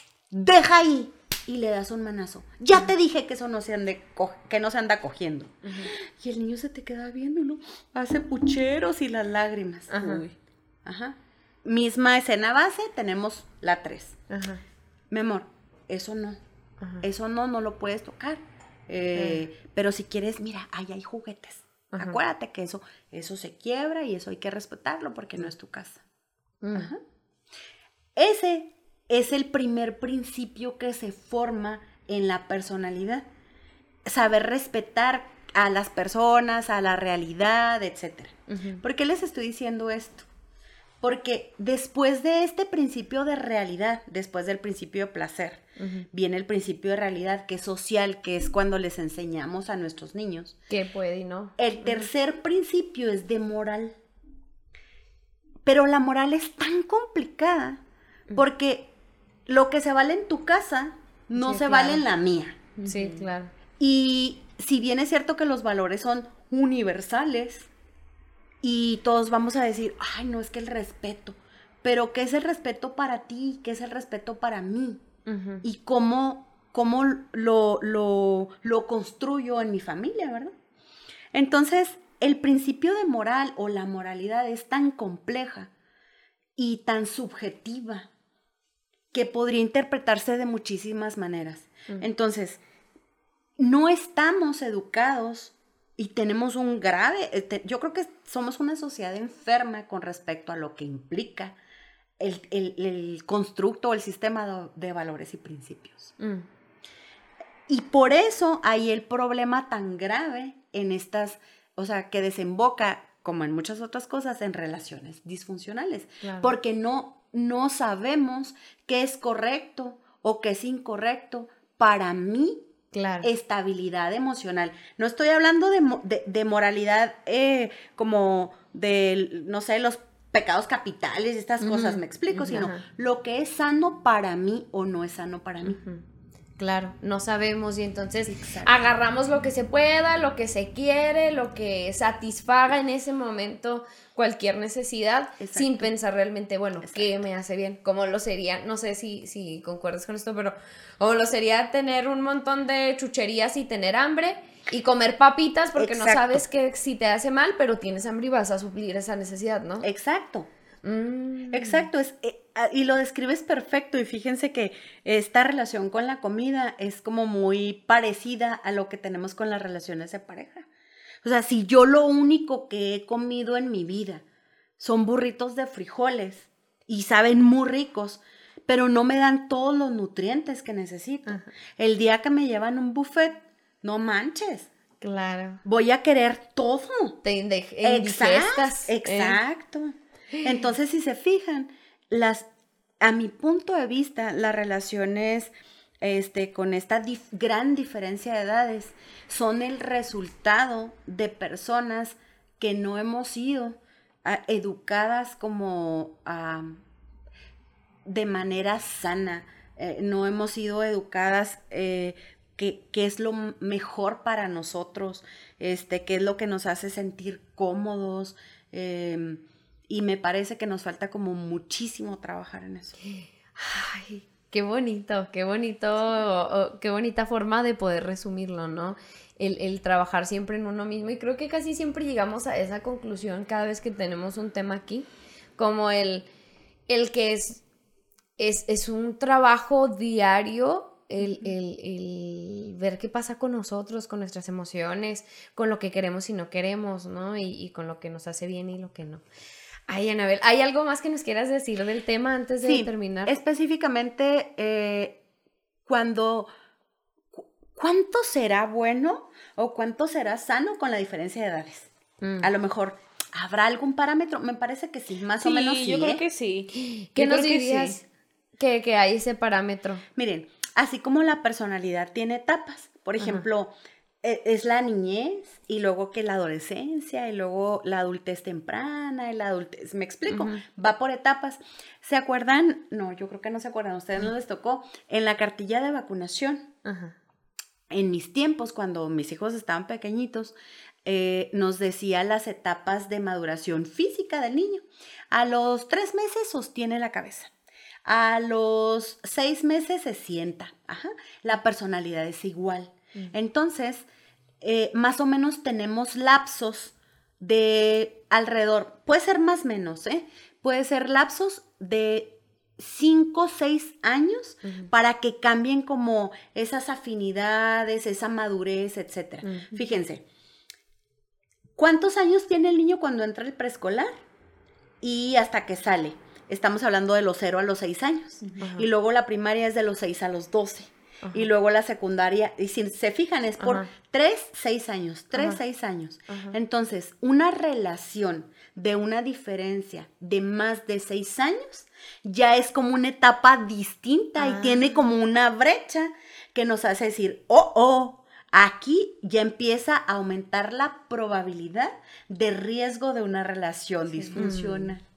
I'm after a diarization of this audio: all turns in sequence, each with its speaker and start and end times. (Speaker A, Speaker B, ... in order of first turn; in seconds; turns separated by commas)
Speaker A: 0.3-10.3, Speaker B: 5.6-5.9, Speaker B: 9.9-10.2, Speaker A: 10.8-14.2, Speaker B: 14.3-14.6, Speaker A: 15.1-16.4, Speaker A: 17.0-26.0, Speaker B: 19.1-19.4, Speaker B: 21.9-22.2, Speaker B: 26.6-26.9, Speaker A: 26.7-27.0, Speaker A: 28.1-33.2, Speaker A: 34.0-40.3, Speaker B: 38.5-38.8, Speaker A: 41.0-50.6, Speaker B: 45.8-46.0, Speaker B: 50.7-52.1, Speaker A: 51.6-54.0, Speaker A: 55.6-57.8, Speaker A: 58.4-58.9, Speaker A: 59.5-62.6, Speaker B: 61.3-62.0, Speaker C: 62.8-63.3, Speaker B: 62.9-63.5, Speaker A: 63.8-67.7, Speaker A: 68.6-75.0, Speaker B: 75.2-75.6, Speaker A: 75.6-80.5, Speaker A: 81.3-85.7, Speaker A: 86.5-88.1, Speaker A: 89.1-92.6, Speaker A: 93.6-101.5, Speaker A: 102.2-106.1, Speaker B: 106.2-106.5, Speaker A: 107.7-122.6, Speaker B: 116.2-116.5, Speaker B: 122.9-123.3, Speaker A: 123.2-135.8, Speaker B: 131.6-132.8, Speaker B: 135.6-136.0, Speaker B: 136.6-159.9, Speaker A: 138.2-138.8, Speaker A: 145.4-145.9, Speaker A: 146.8-147.1, Speaker A: 155.8-156.4, Speaker A: 159.8-160.5, Speaker B: 160.8-161.9, Speaker A: 161.5-170.7, Speaker A: 171.2-174.2, Speaker A: 174.8-184.7, Speaker B: 185.0-185.6, Speaker A: 185.6-187.2, Speaker B: 187.2-189.4, Speaker A: 187.8-192.5, Speaker B: 190.3-190.6, Speaker A: 193.0-206.8, Speaker A: 208.1-223.0, Speaker B: 223.0-236.3, Speaker B: 236.9-237.6, Speaker B: 238.4-249.2, Speaker B: 249.9-253.3, Speaker A: 252.6-255.2, Speaker A: 255.8-256.5, Speaker A: 257.3-261.9, Speaker B: 262.2-262.5, Speaker A: 262.4-266.2, Speaker C: 265.4-268.0, Speaker B: 266.7-268.0, Speaker B: 268.6-270.0, Speaker A: 270.1-286.7, Speaker B: 273.2-273.4, Speaker B: 280.3-280.6, Speaker B: 286.8-287.1, Speaker A: 287.9-297.5, Speaker A: 298.0-304.1, Speaker A: 304.6-320.2, Speaker B: 314.6-314.9, Speaker B: 319.4-319.8, Speaker A: 321.8-324.1, Speaker A: 325.0-355.0, Speaker B: 328.6-328.9, Speaker B: 333.6-333.9, Speaker B: 335.3-335.6, Speaker B: 336.3-336.6, Speaker B: 344.4-344.9, Speaker B: 354.4-354.9